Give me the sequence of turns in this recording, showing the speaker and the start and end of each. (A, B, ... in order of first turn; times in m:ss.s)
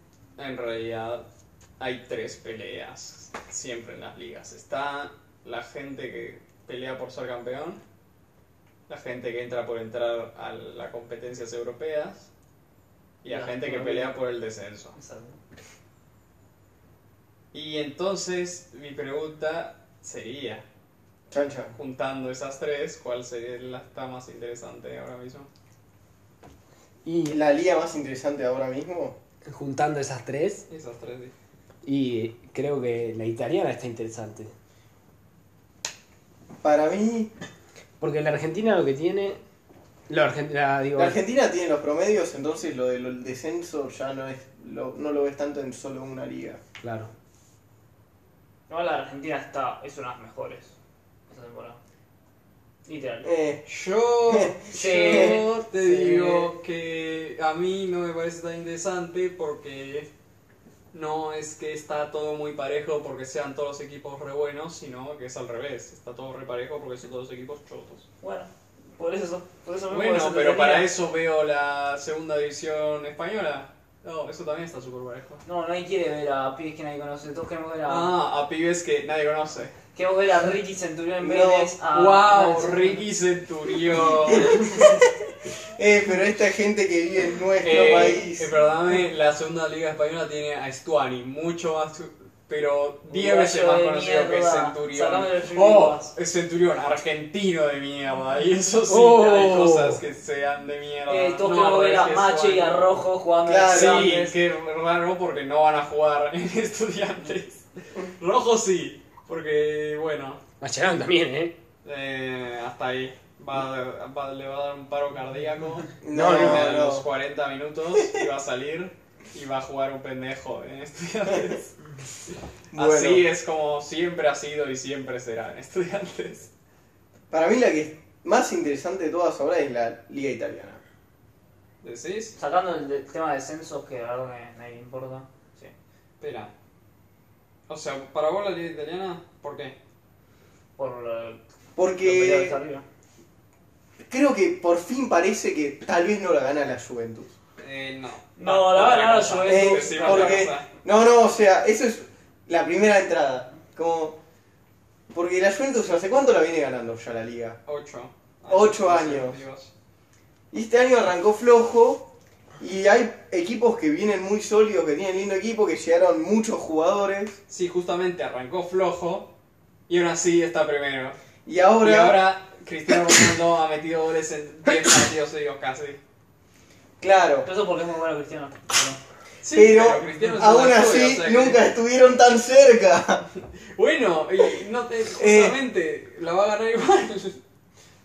0:00.4-0:01.2 A
0:01.8-0:07.8 A
0:08.9-0:12.3 A
0:13.2-0:15.0 A
0:13.2-0:14.2 B
0:15.0-0:15.4 B
0:17.5-0:20.6 A
0:21.3-0:21.8 C
0:21.8-0:25.5 A
0:27.0-0:27.4 D
0:27.3-0:29.2 C
0:29.5-0:30.6 D
0:30.7-0:31.3 A
0:31.8-0:34.5 D
0:36.6-0:37.3 C
0:38.0-0:39.4 D
0:40.1-0:41.2 D
0:41.0-0:46.6 C
0:46.8-0:47.1 D
0:48.7-0:50.7 B
0:51.3-0:51.8 B
0:52.8-0:53.3 B
0:53.2-0:53.7 C
0:53.7-1:00.1 A
0:54.3-0:56.5 C
0:54.7-0:56.1 B
1:00.9-1:08.1 A
1:08.2-1:10.9 B
1:09.9-1:15.4 A
1:15.4-1:18.1 B
1:17.8-1:19.7 A
1:20.0-1:23.0 B
1:21.2-1:21.7 C
1:21.9-1:25.0 A
1:24.0-1:25.1 C
1:24.4-1:24.8 B
1:25.7-1:28.5 C
1:27.6-1:42.9 A
1:27.6-1:28.2 B
1:33.1-1:36.1 B
1:38.9-1:40.0 D
1:41.1-1:44.4 B
1:43.4-1:44.1 C
1:43.7-1:50.4 A
1:50.6-1:51.6 D
1:51.8-2:01.8 A
1:56.0-1:57.1 C
1:56.1-1:56.7 D
2:02.7-2:03.3 C
2:02.7-2:06.5 A
2:07.3-2:10.8 C
2:11.8-2:12.3 A
2:12.4-2:15.7 B
2:16.2-2:16.5 A
2:17.7-2:19.8 A
2:20.8-2:21.4 B
2:21.8-2:22.6 C
2:22.0-2:22.8 B
2:24.0-2:27.4 C
2:27.6-2:30.7 A
2:28.4-2:30.5 B
2:29.5-2:34.2 C
2:35.1-2:37.6 C
2:37.7-2:39.7 A
2:38.5-2:39.4 C
2:40.5-2:42.1 C
2:42.6-2:47.4 C
2:47.5-2:49.3 A
2:49.9-2:51.2 A
2:51.5-2:52.2 C
2:51.8-2:56.0 A
2:57.0-2:57.5 C
2:57.4-2:59.0 B
2:59.4-3:01.6 A
2:59.5-3:03.3 C
3:03.8-3:07.4 A
3:05.2-3:05.6 C